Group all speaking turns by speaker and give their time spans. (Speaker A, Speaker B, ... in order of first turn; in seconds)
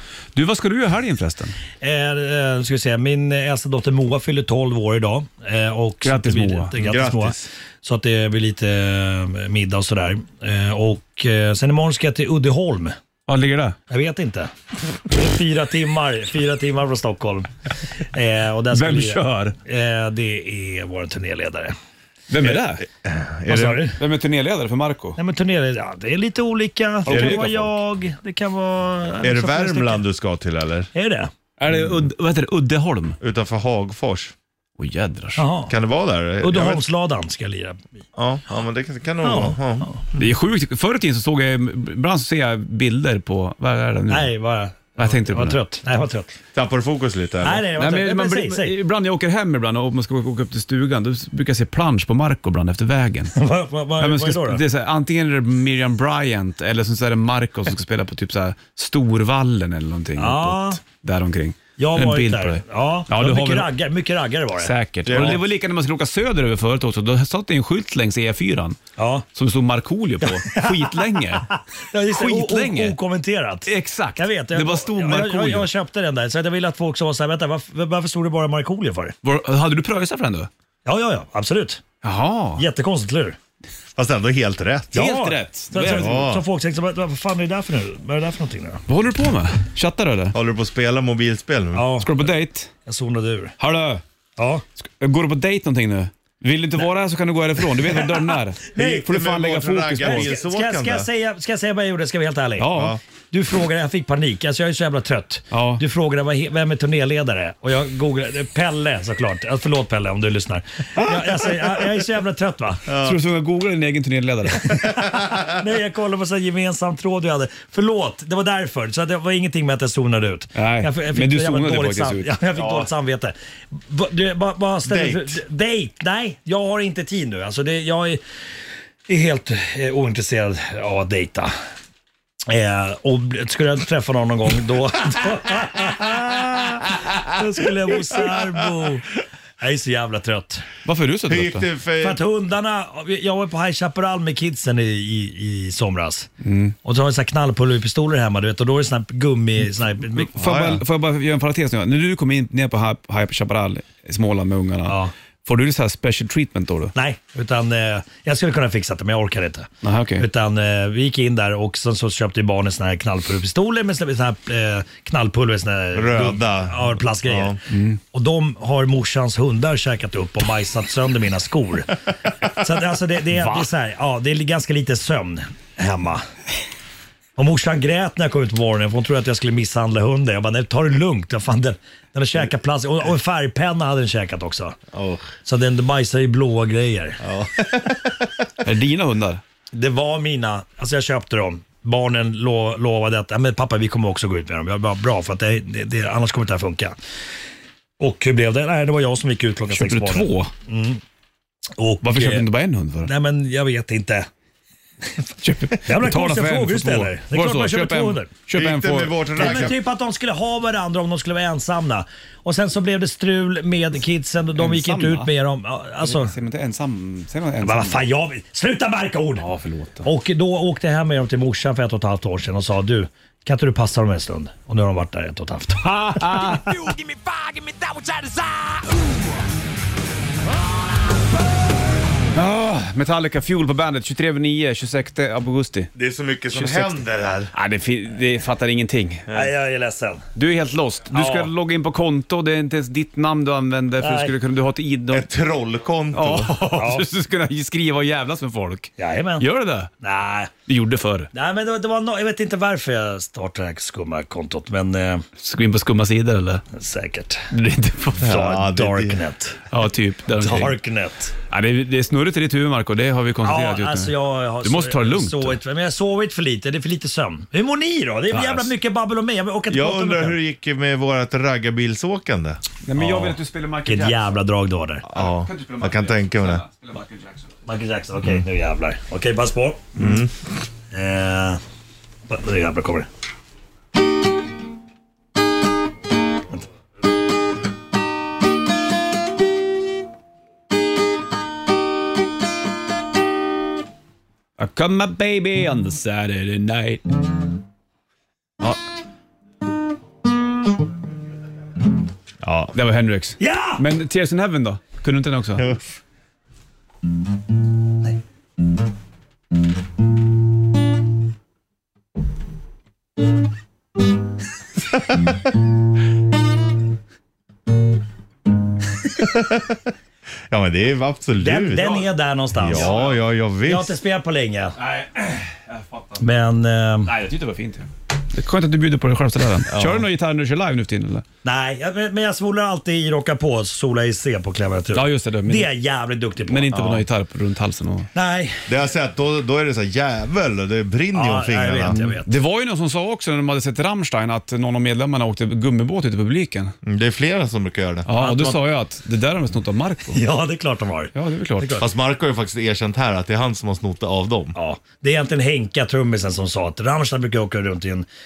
Speaker A: 0.3-1.6, 6.0-6.8, 13.3-13.8, 18.7-19.6, 22.3-22.8, 23.9-25.2, 27.0-27.7, 31.6-33.2, 34.8-35.5, 40.1-44.3, 45.0-45.6, 47.7-53.3, 54.0-63.7, 64.5-68.8, 69.3-71.5, 72.1-73.0, 73.7-75.7, 79.2-80.5, 82.0-82.6, 84.9-86.2, 88.9-90.3, 92.0-92.7, 93.6-94.0, 94.8-100.3, 102.6-103.0, 105.5-105.8, 111.0-111.8, 113.0-114.8, 120.5-122.3, 140.8-141.7, 146.4-146.7, 150.1-156.9, 159.8-160.2, 167.7-168.0, 173.3-173.7, 188.6-189.4, 199.7-200.5, 202.0-203.1, 205.4-209.7, 214.6-215.3, 216.0-218.1, 219.3-220.1, 225.8-226.7, 232.3-235.9, 236.5-236.9, 237.5-239.3, 240.3-245.3, 246.1-249.9, 250.7-251.3, 255.4-256.6, 257.5-258.3, 259.7-260.8, 261.5-265.6, 268.3-268.7, 272.8-274.4, 275.1-277.5, 294.6-297.0, 302.7-305.7, 322.7-323.2, 324.8-326.2, 327.0-331.2, 334.9-335.7, 336.5-338.1, 341.9-346.7, 348.1-350.2, 351.1-351.8
Speaker B: 1.8-12.9, 13.9-14.5, 15.1-17.5, 18.0-21.7, 23.5-24.0, 25.2-30.0, 30.9-31.3, 35.4-35.7, 36.4-38.0, 39.2-40.0, 44.1-46.3, 47.4-48.8, 53.3-54.6, 60.2-60.8, 61.8-65.4, 69.0-69.2, 70.2-79.1, 80.8-81.8, 82.5-83.4, 84.9-88.8, 91.7-92.2, 92.8-93.5, 94.4-94.6, 97.8-99.0, 100.0-102.7, 103.3-112.9, 114.6-128.2, 129.1-131.5, 132.5-139.1, 139.6-140.7, 142.0-146.3, 146.8-150.8, 154.8-155.1, 156.9-176.2, 177.3-184.8, 185.3-187.2, 189.7-196.9, 198.0-201.0, 201.8-202.4, 203.0-204.3, 205.8-208.3, 209.3-216.3, 217.6-219.4, 220.0-227.0, 227.8-228.6, 239.3-240.2, 241.1-241.5, 244.0-244.3, 246.7-247.1, 249.0-249.4, 250.0-250.5, 251.3-255.2, 256.7-257.5, 258.2-259.7, 260.3-261.3, 263.4-270.4, 272.9-275.1, 277.6-280.2, 280.9-281.6, 282.3-283.1, 303.4-303.8, 321.4-323.0, 323.6-324.8, 326.2-327.1, 331.4-336.8, 338.1-338.8, 341.1-342.3, 348.2-348.5, 350.1-351.9, 354.5-358.1
Speaker C: 6.8-7.5, 22.9-23.8, 27.1-27.5, 29.2-30.9, 33.2-34.3, 35.7-36.8, 38.1-39.9, 46.5-47.7, 65.0-65.4, 84.0-85.1, 85.9-86.4, 90.3-91.9, 98.7-101.1, 102.7-103.0, 112.9-113.2, 115.1-115.5, 122.5-122.9, 124.8-125.4, 141.3-142.2, 150.4-150.8, 165.9-167.6, 184.9-185.3, 187.2-188.1, 208.5-209.8, 235.9-237.5, 245.1-246.5, 258.2-259.2, 269.7-272.6, 275.1-276.6, 280.0-280.3, 302.4-302.7, 319.3-319.8, 320.5-323.9, 329.7-330.1, 336.7-337.0, 338.7-341.9, 346.8-348.3, 351.8-354.6